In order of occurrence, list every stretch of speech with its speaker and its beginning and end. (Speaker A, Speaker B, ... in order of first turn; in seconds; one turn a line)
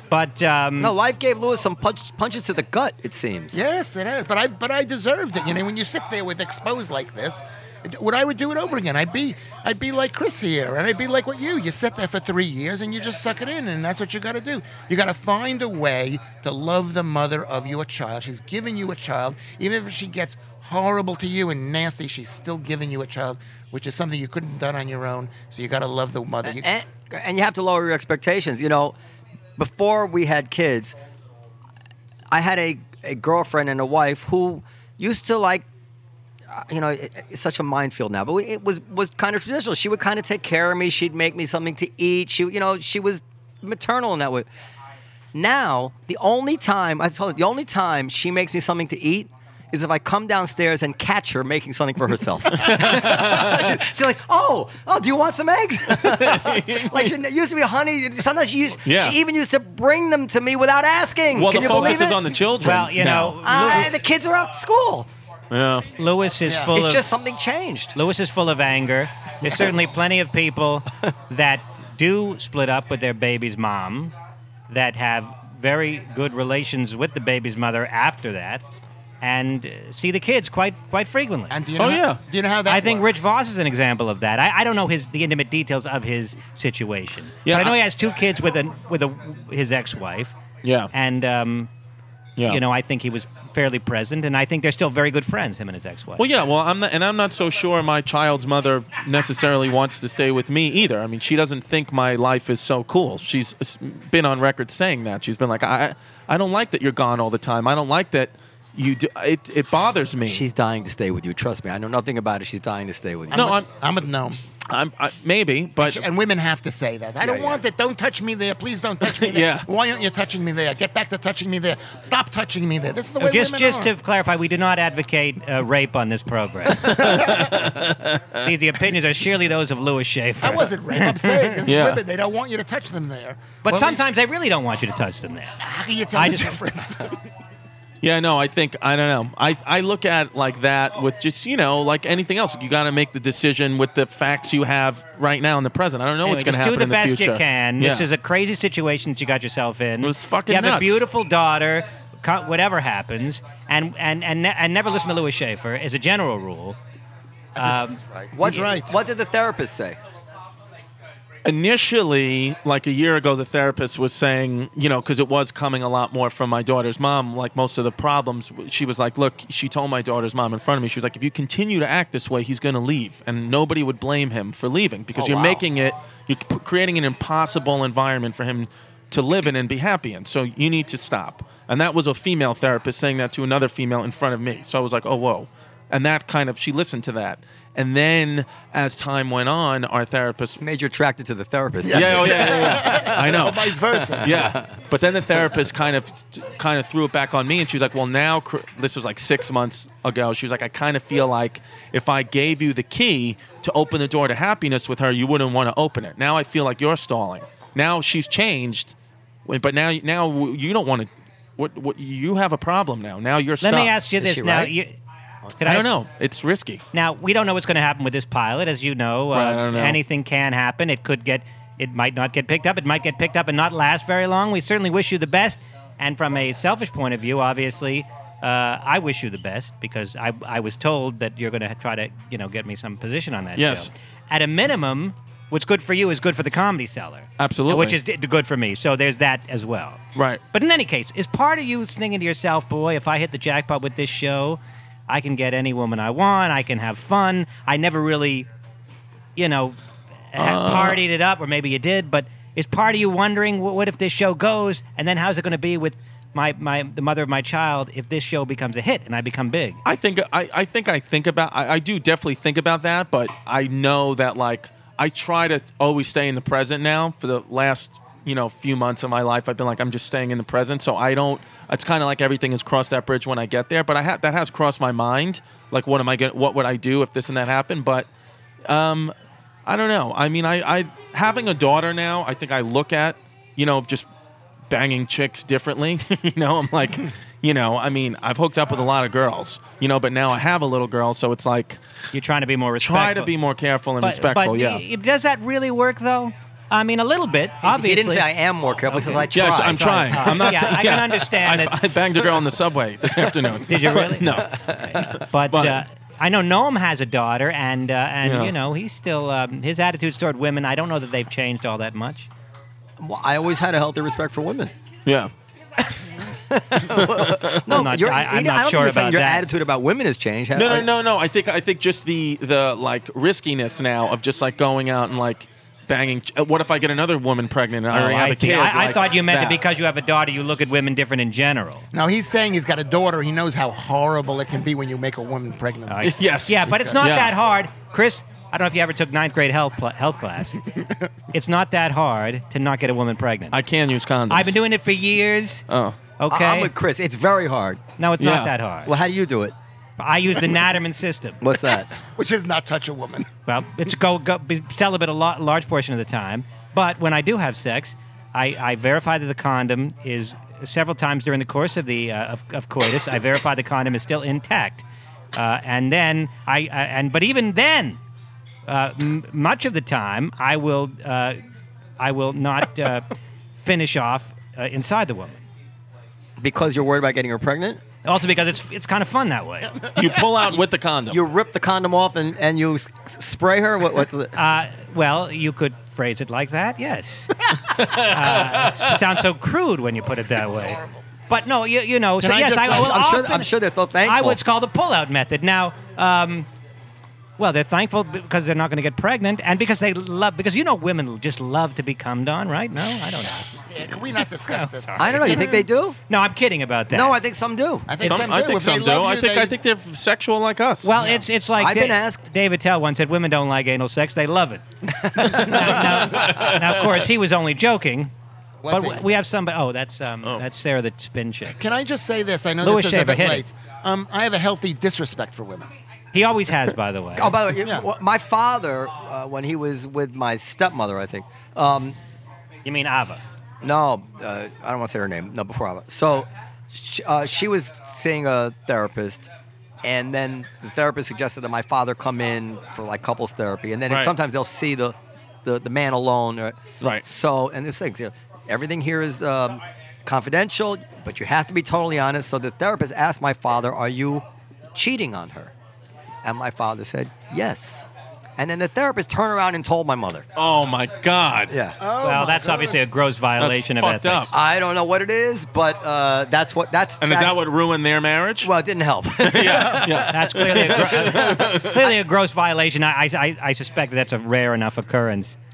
Speaker A: 0.1-0.9
Speaker B: 0.8-3.6
Speaker C: 3.5-26.7
Speaker B: 26.4-28.9
Speaker B: 29.6-30.9
Speaker B: 32.3-35.6
Speaker B: 36.5-44.5
Speaker B: 45.3-62.3
Speaker D: 52.5-53.8
Speaker D: 55.9-57.1
Speaker D: 58.8-59.2
Speaker D: 61.3-63.4
Speaker A: 62.6-63.9
Speaker B: 63.4-65.1
Speaker D: 65.5-65.9
Speaker A: 66.0-67.1
Speaker C: 66.4-66.7
Speaker B: 66.7-68.0
Speaker A: 67.9-74.1
Speaker A: 74.7-78.7
Speaker A: 79.2-81.6
Speaker C: 81.5-83.3
Speaker D: 81.8-82.2
Speaker A: 82.7-90.3
Speaker D: 87.4-87.8
Speaker D: 90.6-90.9
Speaker A: 90.9-91.7
Speaker A: 92.5-96.2
Speaker D: 96.2-110.5
Speaker B: 110.2-113.6
Speaker C: 113.3-114.4
Speaker D: 113.3-113.7
Speaker D: 114.7-116.0
Speaker C: 115.8-123.9
Speaker B: 117.2-117.6
Speaker D: 119.0-119.7
Speaker A: 123.2-127.5
Speaker D: 126.8-128.5
Speaker C: 127.0-127.5
Speaker A: 128.4-131.6
Speaker C: 130.4-134.0
Speaker D: 131.6-132.0
Speaker A: 133.6-135.6
Speaker C: 135.6-137.2
Speaker A: 136.2-136.6
Speaker D: 138.0-148.1
Speaker A: 146.2-156.8
Speaker D: 150.0-151.0
Speaker A: 157.6-158.6
Speaker C: 157.6-159.0
Speaker B: 158.3-160.0
Speaker D: 161.4-190.6
Speaker B: 175.1-175.6
Speaker B: 190.6-193.2
Speaker C: 191.8-194.5
Speaker D: 191.9-208.9
Speaker B: 194.1-194.7
Speaker D: 209.4-213.9
Speaker A: 213.6-214.9
Speaker B: 214.2-214.7
Speaker A: 215.6-215.9
Speaker D: 215.6-216.8
Speaker A: 216.9-240.0
Speaker D: 219.3-220.0
Speaker D: 233.6-233.9
Speaker D: 237.4-238.0
Speaker D: 240.1-240.4
Speaker A: 240.5-248.5
Speaker A: 249.3-249.8
Speaker A: 250.3-259.8
Speaker D: 250.4-251.0
Speaker D: 259.8-278.1
Speaker D: 278.7-279.1
Speaker D: 279.6-284.1
Speaker D: 284.7-291.8
Speaker A: 292.1-293.3
Speaker D: 292.8-294.8
Speaker A: 294.0-298.3
Speaker B: 297.6-300.0
Speaker A: 298.9-301.8
Speaker D: 299.3-305.8
Speaker A: 303.7-312.3
Speaker B: 304.5-305.1
Speaker D: 308.2-308.5
Speaker B: 313.0-314.7
Speaker D: 315.1-315.3
Speaker B: 316.5-320.9
Speaker D: 316.8-317.6
Speaker A: 317.7-319.5
Speaker D: 320.5-329.6
Speaker A: 327.9-331.9
Speaker C: 331.9-337.0
Speaker A: 335.9-340.6
Speaker D: 336.0-337.4
Speaker A: 341.3-343.6
Speaker D: 343.5-344.6
Speaker A: 344.3-345.6
Speaker D: 345.7-346.0
Speaker A: 346.2-346.7
Speaker B: 346.3-347.8
Speaker A: 348.0-348.9
Speaker D: 348.2-348.5
Speaker B: 348.8-349.5
Speaker A: 350.0-351.4
Speaker B: 351.4-351.9
Speaker C: 352.0-353.3
Speaker A: 353.5-368.0
Speaker A: 368.6-371.4
Speaker A: 372.0-375.4
Speaker B: 376.4-377.8
Speaker A: 378.0-379.9
Speaker D: 379.9-381.2
Speaker B: 381.1-384.3
Speaker A: 384.3-396.5
Speaker D: 387.7-389.0
Speaker C: 390.4-391.0
Speaker C: 392.2-393.1
Speaker B: 392.6-394.4
Speaker A: 397.4-403.5
Speaker C: 403.5-405.6
Speaker A: 404.5-407.2
Speaker B: 405.0-406.0
Speaker B: 406.9-407.9
Speaker C: 407.9-409.5
Speaker D: 408.0-410.9
Speaker A: 410.8-414.6
Speaker C: 410.9-411.2
Speaker B: 411.6-412.2
Speaker B: 414.9-416.2
Speaker A: 415.2-418.1
Speaker D: 415.9-417.0
Speaker C: 418.6-419.1
Speaker A: 418.7-421.6
Speaker C: 421.6-425.7
Speaker A: 422.6-423.4
Speaker A: 426.1-427.4
Speaker B: 427.2-432.0
Speaker C: 427.6-427.9
Speaker A: 432.6-433.2
Speaker B: 433.6-439.3
Speaker B: 439.8-455.5
Speaker D: 443.9-444.1
Speaker B: 456.2-457.9
Speaker B: 458.4-460.2
Speaker D: 460.4-461.5
Speaker B: 461.5-461.8
Speaker C: 461.8-462.8
Speaker A: 462.0-464.3
Speaker D: 463.4-464.3
Speaker B: 464.3-467.3
Speaker D: 467.0-468.5
Speaker B: 468.4-471.3
Speaker D: 469.2-471.9
Speaker C: 469.4-469.9
Speaker A: 470.0-475.4